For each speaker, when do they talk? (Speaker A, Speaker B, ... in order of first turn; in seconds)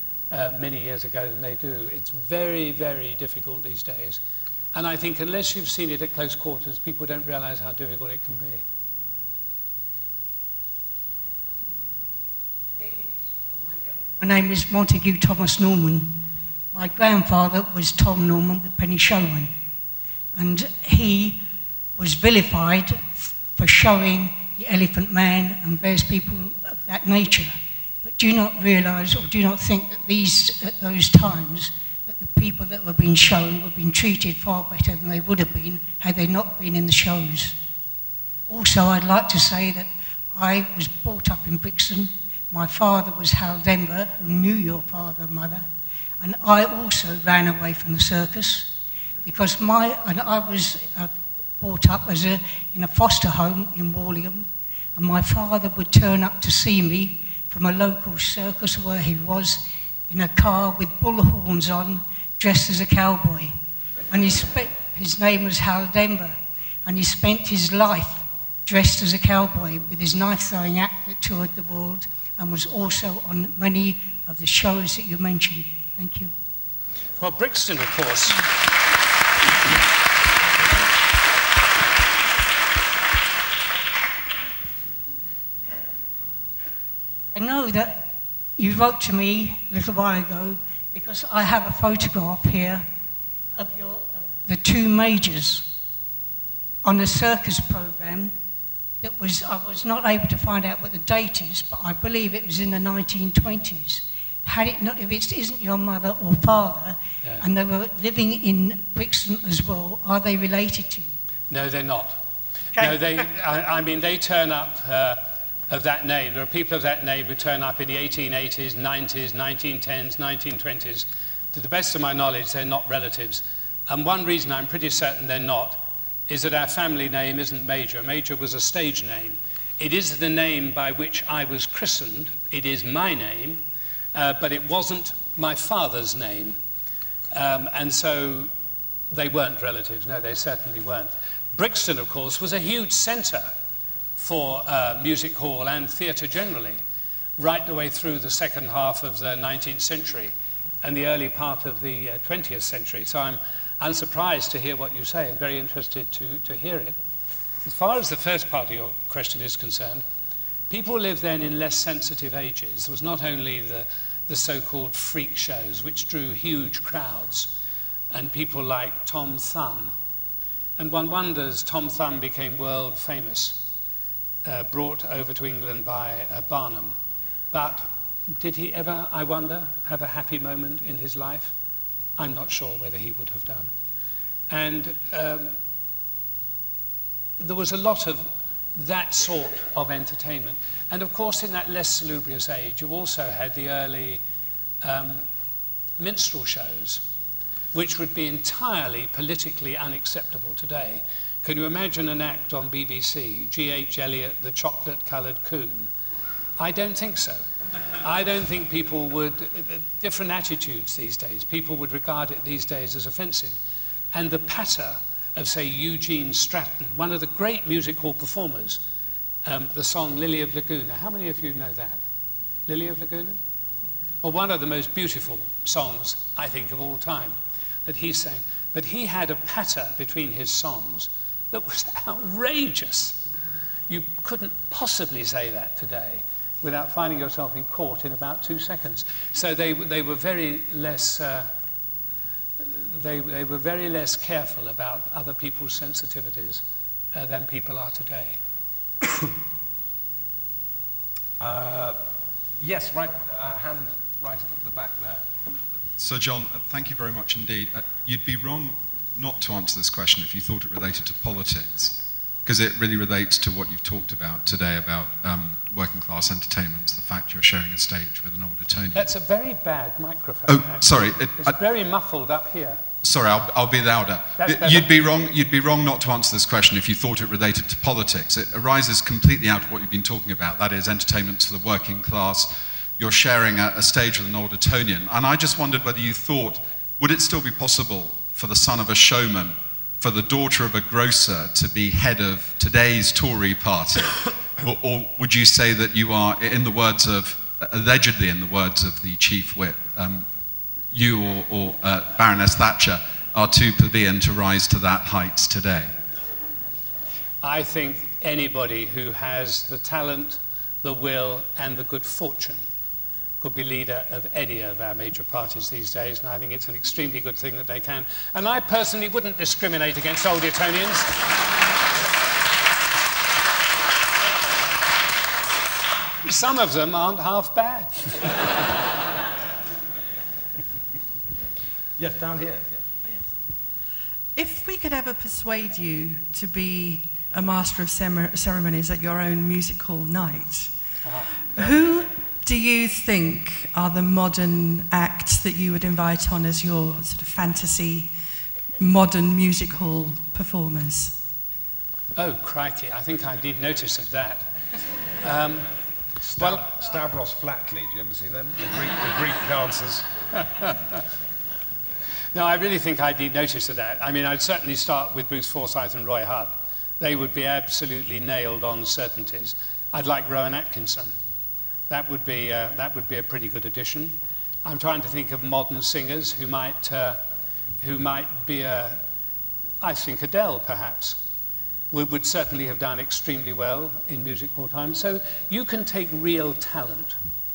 Speaker A: 0.3-4.2, 4.7-8.6, 77.2-78.5, 111.5-112.2, 112.7-133.6, 134.1-136.6, 137.3-138.5, 139.1-143.5, 144.2-146.8, 147.4-157.0, 157.6-160.0, 160.7-167.5, 168.1-169.9, 170.8-173.7, 174.4-177.0, 177.5-181.5, 182.2-183.7, 184.5-185.6, 187.4-194.2, 194.8-195.2, 196.0-197.0, 197.7-205.9, 206.6-207.4, 208.0-213.6, 214.1-218.8, 219.4-222.0, 222.7-223.4, 224.2-233.2, 233.9-241.5, 242.6-246.6, 247.1-248.4, 268.9-272.8, 274.4-274.9, 307.4-312.6, 313.4-321.2, 326.2-328.4, 341.0-341.7, 352.1-354.5, 355.2-356.7, 360.4-361.0, 362.3-371.1, 371.9-377.2, 377.8-379.0, 379.8-381.2, 381.9-387.1
Speaker B: 14.2-16.2, 16.7-19.5, 20.4-21.4, 22.0-37.5, 38.5-45.7, 46.2-48.7, 49.2-63.5, 64.1-76.3, 87.3-88.0, 88.6-92.8, 93.5-95.7, 96.8-98.3, 99.0-111.1
Speaker C: 251.4-252.0, 252.6-255.3, 332.0-332.8, 356.3-360.1
Speaker D: 255.9-269.1, 270.5-271.6, 273.0-300.3, 300.9-305.9
Speaker E: 334.3-340.7, 341.5-348.1, 348.8-351.2